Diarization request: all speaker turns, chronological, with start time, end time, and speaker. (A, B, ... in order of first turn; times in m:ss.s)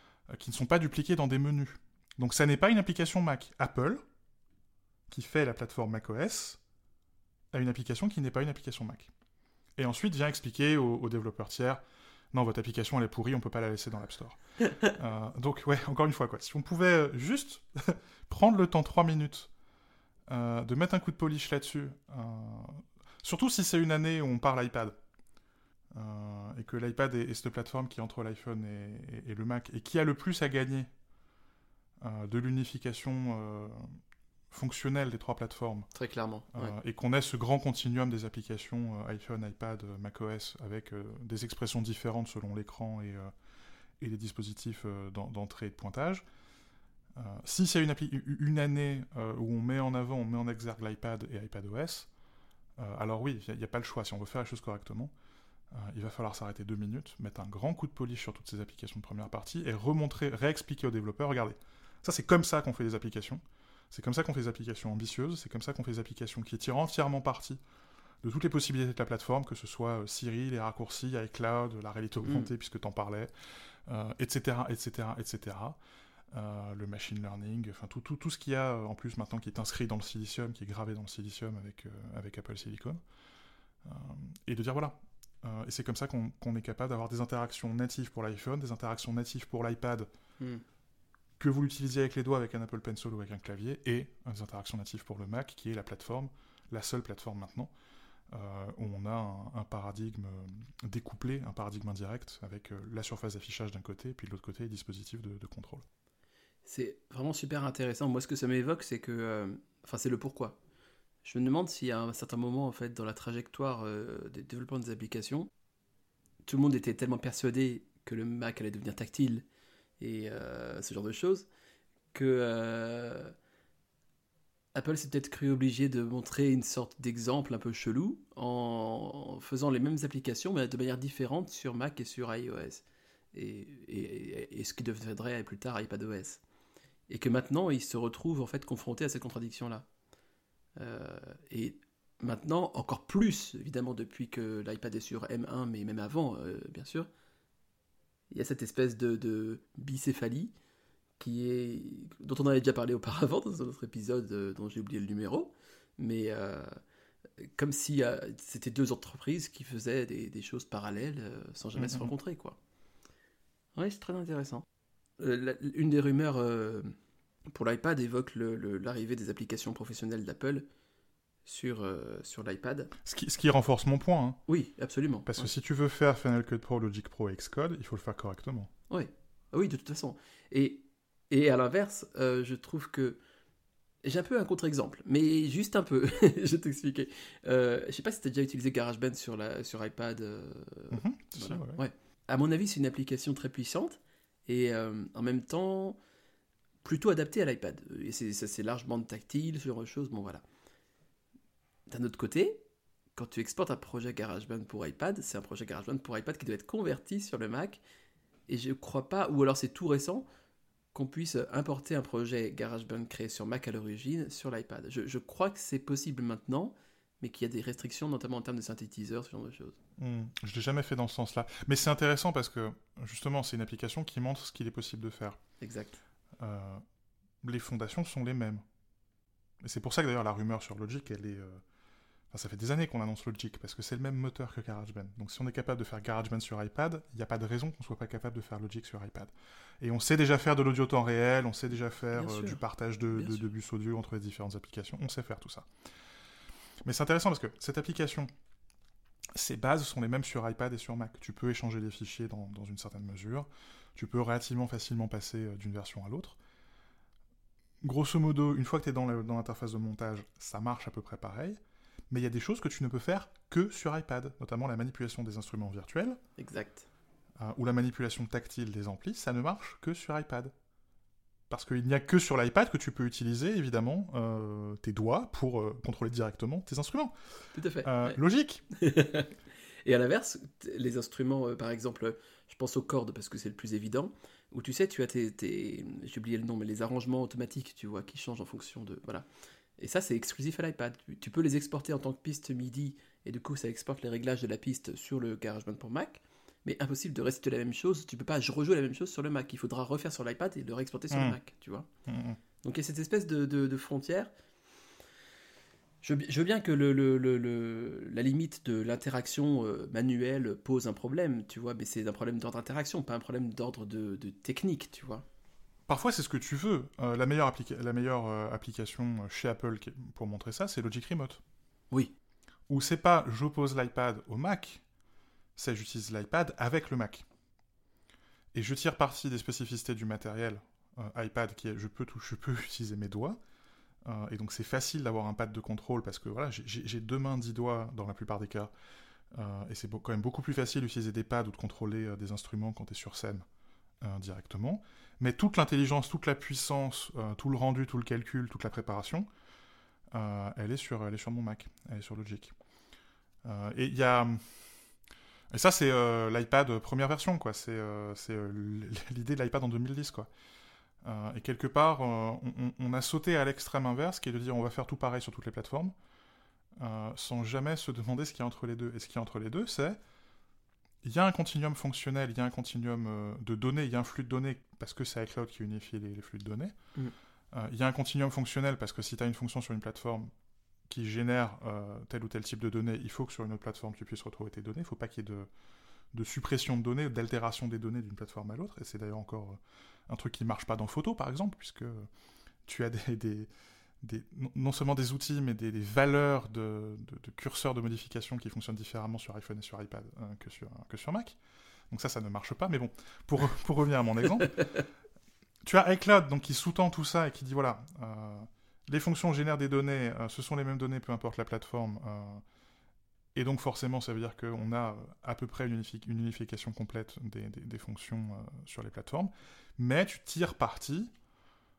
0:00.3-0:04.0 A
0:05.1-0:06.6 A
0:07.5-0:09.1 A
0:09.8-0:11.8 A
0:12.3-0:19.5 A
0:20.3-0:25.0 A
0:25.9-0:30.9 A
0:32.0-0:35.9 A
0:35.9-0:36.7 B
0:36.5-0:43.3 A
0:44.0-0:46.2 A
0:47.1-0:52.1 A
0:52.8-0:55.1 A
0:55.7-1:07.6 A
1:08.2-1:15.8 A
1:12.2-1:12.5 B
1:16.3-1:23.0 A
1:23.8-1:30.1 A
1:31.4-1:37.7 A
1:38.3-1:45.8 A
1:46.6-1:50.6 B
1:51.2-1:55.5 B
1:56.5-1:59.4 B
2:00.0-2:01.5 B
2:02.1-2:03.3 B
2:04.7-2:16.4 B
2:17.1-2:19.8 B
2:20.8-2:27.1 B
2:28.3-2:30.5 B
2:31.2-2:36.8 B
2:37.4-2:42.6 B
2:41.8-2:42.1 A
2:43.8-2:44.6 B
2:45.2-2:46.9 B
2:47.5-2:50.6 B
2:51.4-2:52.9 B
2:53.0-2:54.4 A
2:54.5-2:55.5 B
2:55.2-2:58.7 A
2:58.9-3:03.2 B
3:04.0-3:16.0 B
3:10.9-3:11.8 A
3:16.8-3:20.4 B
3:21.9-3:22.6 B
3:23.2-3:27.8 B
3:28.5-3:30.2 B
3:30.9-3:39.8 B
3:40.0-3:45.4 A
3:45.6-3:46.0 B
3:46.4-3:46.8 A
3:47.4-3:48.6 A
3:49.6-3:51.6 A
3:52.3-4:05.7 A
4:02.2-4:02.6 B
4:03.1-4:03.4 B
4:06.8-4:08.3 A
4:09.3-4:16.4 A
4:17.8-4:21.6 A
4:22.1-4:26.2 A
4:26.4-4:26.9 B
4:27.4-4:30.5 A
4:31.5-4:37.1 A
4:37.5-4:38.2 B
4:37.8-4:38.6 A
4:38.7-4:49.3 B
4:49.8-5:01.8 B
5:01.1-5:01.4 A
5:02.1-5:02.4 A
5:02.6-5:04.3 B
5:06.0-5:15.2 B
5:15.9-5:21.4 A
5:22.7-5:24.8 A
5:25.6-5:27.2 A
5:28.5-5:33.4 A
5:34.0-5:38.7 A
5:39.3-5:43.4 A
5:44.0-5:49.3 A
5:50.1-5:52.5 A
5:53.4-5:54.7 A
5:55.5-6:00.3 A
6:01.0-6:05.9 A
6:06.8-6:10.0 A
6:11.0-6:16.7 A
6:17.5-6:20.3 A
6:20.9-6:25.5 A
6:26.1-6:32.1 A
6:32.6-6:33.5 A
6:34.0-6:41.4 A
6:41.9-6:44.8 A
6:45.6-6:52.4 A
6:53.3-7:01.1 A